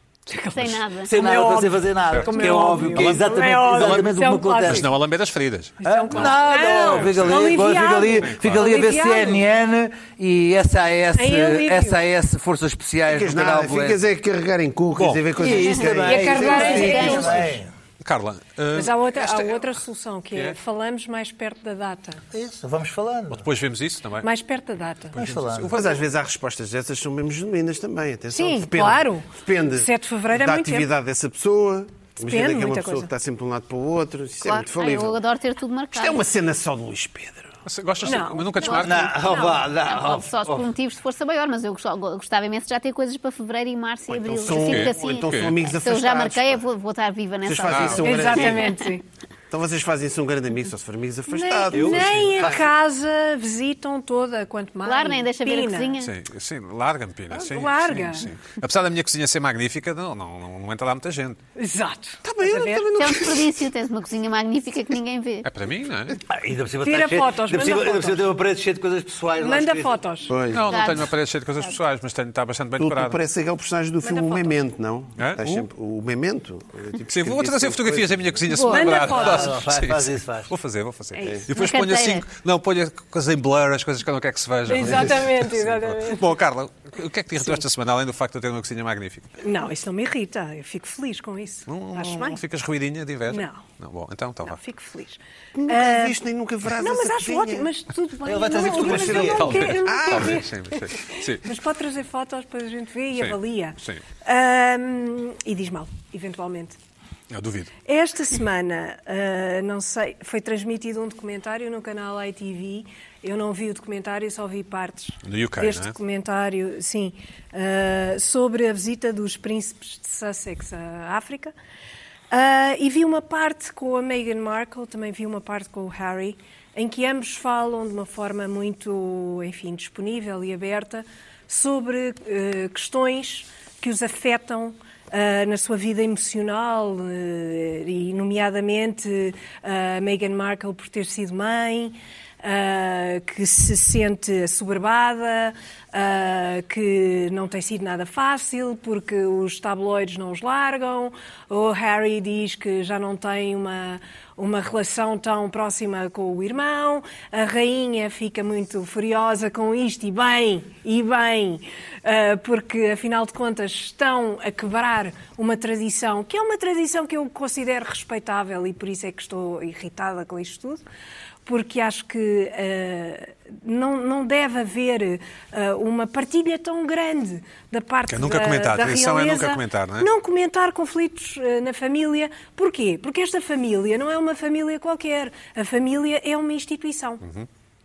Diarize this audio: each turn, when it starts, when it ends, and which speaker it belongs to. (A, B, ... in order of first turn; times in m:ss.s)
0:00.3-0:04.9 A
0:00.5-0:01.2 B
0:01.0-0:04.9 C
0:02.1-0:03.2 D
0:04.6-0:07.5 D
0:05.8-0:09.4 A
0:05.8-0:14.0 C
0:08.2-0:08.7 D
0:11.1-0:12.0 A
0:13.1-0:17.6 E
0:15.0-0:15.2 D
0:15.4-0:17.7 C
0:15.6-0:16.0 B
0:16.0-0:17.4 A
0:16.5-0:17.4 B
0:18.0-0:19.8 D
0:18.8-0:22.2 A
0:22.3-0:23.5 C
0:23.3-0:24.3 D
0:24.2-0:25.2 A
0:25.1-0:26.0 D
0:25.2-0:25.8 C
0:25.7-0:35.2 E
0:28.3-0:30.9 A
0:32.2-0:33.1 A
0:34.8-0:36.2 B
0:35.9-0:37.6 E
0:37.6-0:39.2 D
0:38.0-0:39.7 A
0:38.6-0:38.9 B
0:38.8-0:40.7 C
0:39.8-0:48.9 B
0:44.1-0:46.7 E
0:44.5-0:45.6 D
0:47.4-0:48.7 E
0:47.6-0:48.1 D
0:48.0-0:49.0 A
0:49.5-0:52.4 E
0:51.3-0:56.0 A
0:51.7-0:52.6 C
0:54.8-0:56.1 B
0:56.0-1:01.4 D
0:57.3-0:58.3 A
1:01.6-1:03.0 A
1:02.2-1:03.6 E
1:03.0-1:05.5 B
1:05.4-1:06.2 D
1:06.2-1:10.0 C
1:06.8-1:08.3 A
1:09.4-1:10.3 A
1:10.3-1:10.9 E
1:10.5-1:13.2 D
1:10.7-1:11.1 B
1:12.8-1:18.4 E
1:14.0-1:14.6 A
1:15.2-1:15.7 D
1:17.0-1:29.3 D
1:18.5-1:19.0 B
1:18.6-1:19.6 A
1:19.0-1:20.5 C
1:21.2-1:21.4 A
1:21.5-1:22.3 B
1:24.7-1:26.3 A
1:29.4-1:32.4 A
1:31.7-1:34.6 D
1:33.3-1:33.6 A
1:34.4-1:36.2 A
1:35.5-1:37.7 E
1:36.8-1:46.8 A
1:38.2-1:39.7 C
1:38.8-1:40.4 E
1:39.2-1:41.5 D
1:43.2-1:44.0 D
1:47.3-1:47.7 D
1:47.8-2:01.5 A
1:55.2-1:56.0 D
2:02.3-2:50.8 A
2:51.5-3:07.2 A
2:58.1-3:00.1 D